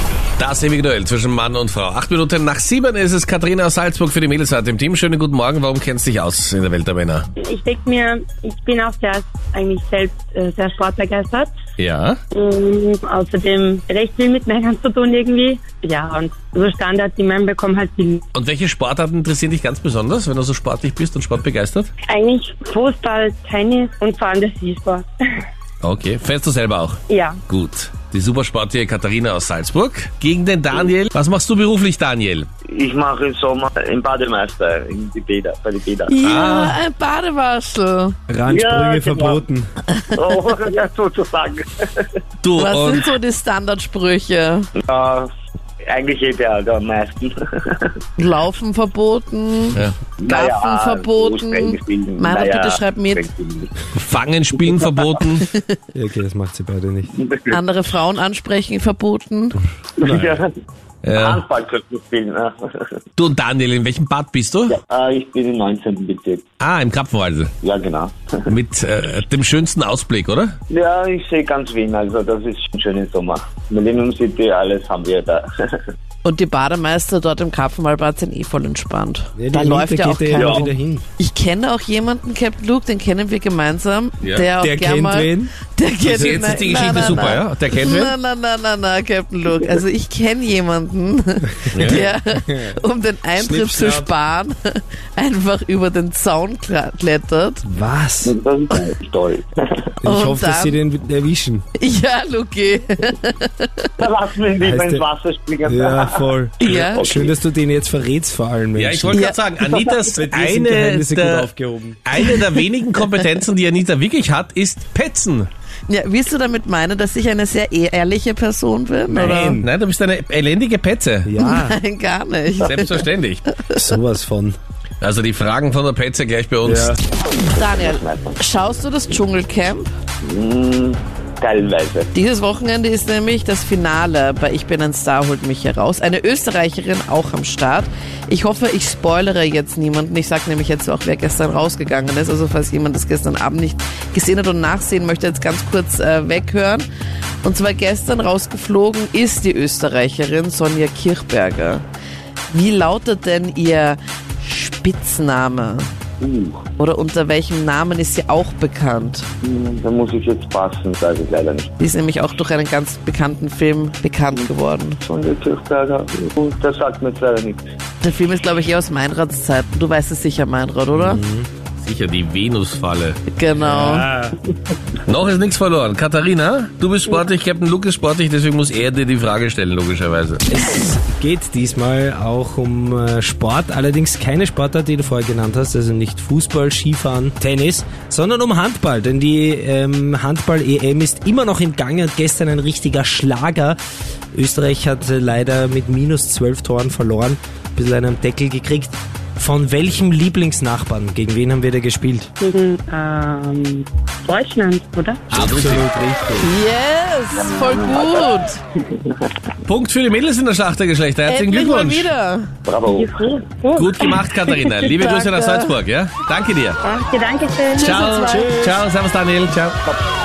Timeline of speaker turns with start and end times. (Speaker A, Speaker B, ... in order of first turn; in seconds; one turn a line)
Speaker A: 0.4-7.3
Speaker B: 7.4-11.5
Speaker A: 11.8-12.2
Speaker B: 12.3-18.2
Speaker A: 18.3-21.9
Speaker B: 22.1-25.1
Speaker A: 25.8-32.5
Speaker B: 27.1-27.4
Speaker C: 32.7-36.1
Speaker D: 36.1-38.1
Speaker A: 36.2-36.8
Speaker E: 38.3-39.7
Speaker C: 38.5-39.4
Speaker C: 40.1-42.0
Speaker A: 42.4-43.1
Speaker D: 42.6-44.7
Speaker C: 44.8-45.3
Speaker C: 45.8-47.9
Speaker D: 48.2-53.2
Speaker C: 50.2-53.7
Speaker A: 54.0-55.5
Speaker E: 55.9-57.1
Speaker C: 57.2-57.5
Speaker D: 57.5-59.6
Speaker C: 60.0-60.5
Speaker E: 60.0-60.3
Speaker A: 61.0-61.4
Speaker C: 61.2-62.9
Speaker A: 63.2-64.8
Speaker C: 64.7-66.4
Speaker A: 66.6-67.5
Speaker C: 67.6-68.5
Speaker A: 68.5-70.5
Speaker C: 70.7-75.5
Speaker D: 76.2-97.6
Speaker E: 79.4-81.0
Speaker C: 80.3-80.7
Speaker A: 84.2-84.5
Speaker E: 84.6-85.5
Speaker A: 86.0-88.1
Speaker C: 86.8-87.2
Speaker A: 91.7-92.1
Speaker E: 91.9-92.8
Speaker E: 93.3-94.1
Speaker E: 97.6-98.3
Speaker C: 98.2-99.5
Speaker E: 100.0-101.6
Speaker D: 100.0-100.8
Speaker D: 101.8-103.9
Speaker C: 104.0-107.3
Speaker E: 104.6-105.0
Speaker E: 105.7-109.2
Speaker D: 106.6-107.1
Speaker A: 108.7-111.5
Speaker D: 109.1-109.4
Speaker E: 110.1-112.0
Speaker A: 112.0-115.5
Speaker D: 112.2-112.5
Speaker D: 115.9-119.6
Speaker E: 119.1-119.7
Speaker A: 119.6-121.3
Speaker E: 121.2-121.8
Speaker D: 121.4-123.8
Speaker A: 122.6-123.4
Speaker E: 123.7-124.6
Speaker A: 125.0-126.9
Speaker E: 126.6-127.0
Speaker C: 127.5-128.4
Speaker D: 127.5-129.9
Speaker C: 130.2-132.1
Speaker D: 132.1-146.9
Speaker D: 147.4-151.8
Speaker D: 152.5-155.9
Speaker C: 156.2-156.6
Speaker D: 156.8-159.3
Speaker C: 159.4-161.7
Speaker D: 161.8-165.0
Speaker C: 165.0-167.6
Speaker D: 168.0-171.2
Speaker E: 170.9-171.5
Speaker A: 171.8-173.2
Speaker D: 173.3-174.1
Speaker E: 173.5-174.3
Speaker A: 175.1-180.4
Speaker E: 180.5-193.8
Speaker E: 194.3-202.3
Speaker B: 202.4-205.2
Speaker E: 205.3-206.5
Speaker A: 205.3-205.9
Speaker D: 206.4-208.6
Speaker C: 207.3-208.2
Speaker C: 208.9-209.2
Speaker A: 209.6-212.1
Speaker D: 211.2-212.5
Speaker C: 212.7-213.4
Speaker B: 212.8-214.9
Speaker A: 213.7-216.8
Speaker D: 214.8-215.7
Speaker B: 216.8-218.5
Speaker A: 217.8-219.8
Speaker E: 217.8-218.8